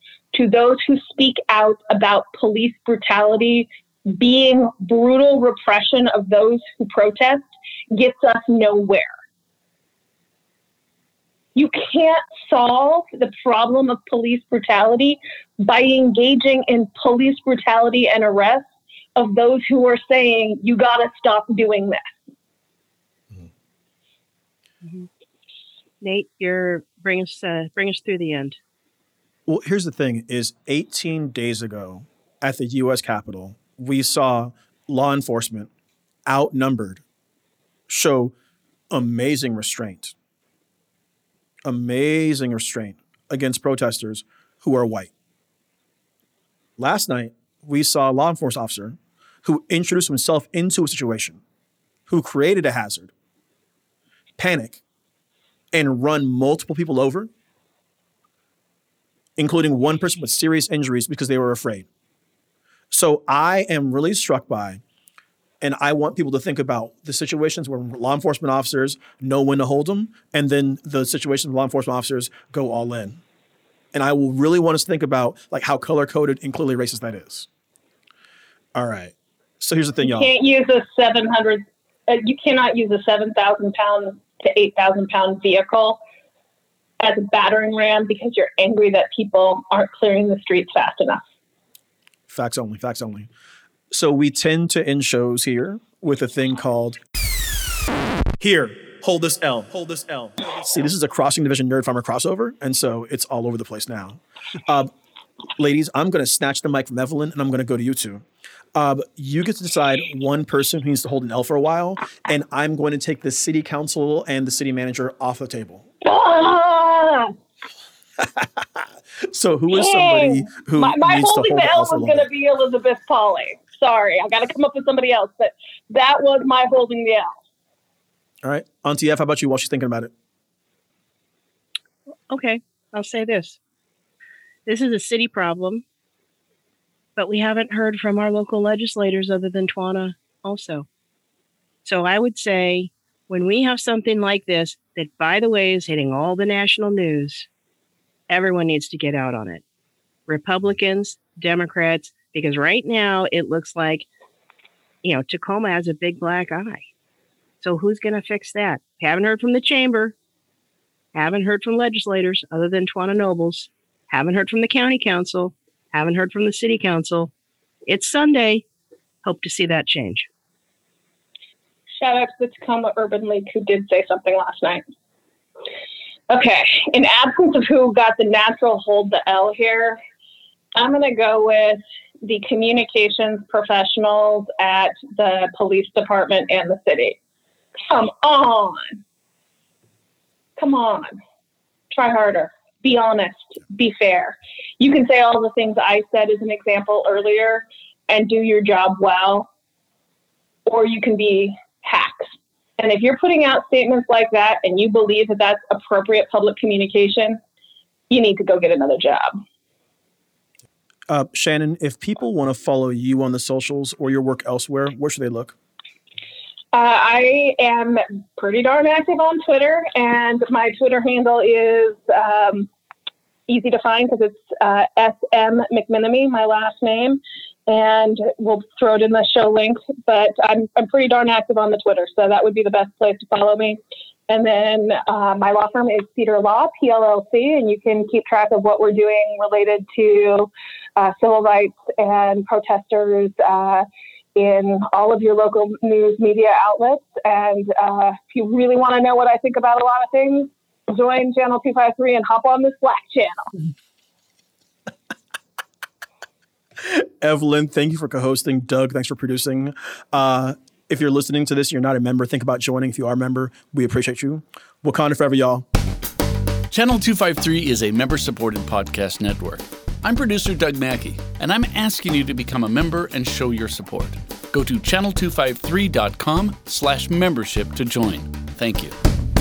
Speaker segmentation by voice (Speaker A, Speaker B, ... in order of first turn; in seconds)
Speaker A: 0.3-9.1, 11.6-22.0, 80.0-86.0, 87.0-91.2, 116.0-117.3, 119.7-127.3, 172.0-174.8, 176.3-180.0, 180.8-187.2, 187.9-189.0, 190.6-191.2, 191.9-199.5, 200.7-207.4, 208.1-209.3, 216.7-222.7, 223.5-243.8, 244.4-253.5
Speaker B: 26.0-28.6, 132.3-133.6, 134.7-135.8, 137.2-140.9, 141.8-147.5, 148.3-149.6, 150.3-154.1, 155.0-156.8, 157.6-160.2, 161.1-167.3, 167.9-168.6, 169.2-170.3
Speaker C: 29.5-35.7, 36.3-37.0, 37.9-38.3, 38.9-40.1, 41.6-45.1, 46.8-51.4, 52.1-53.1, 54.4-54.8, 55.7-57.3, 59.4-61.9, 62.9-64.8, 65.6-73.2, 73.9-77.5, 78.8-80.3, 92.3-93.3, 93.9-97.0, 98.4-104.9, 105.6-108.2, 108.8-115.9, 118.2-122.3, 128.4-130.1, 211.1-215.6, 256.8-265.6
Speaker D: 266.7-278.9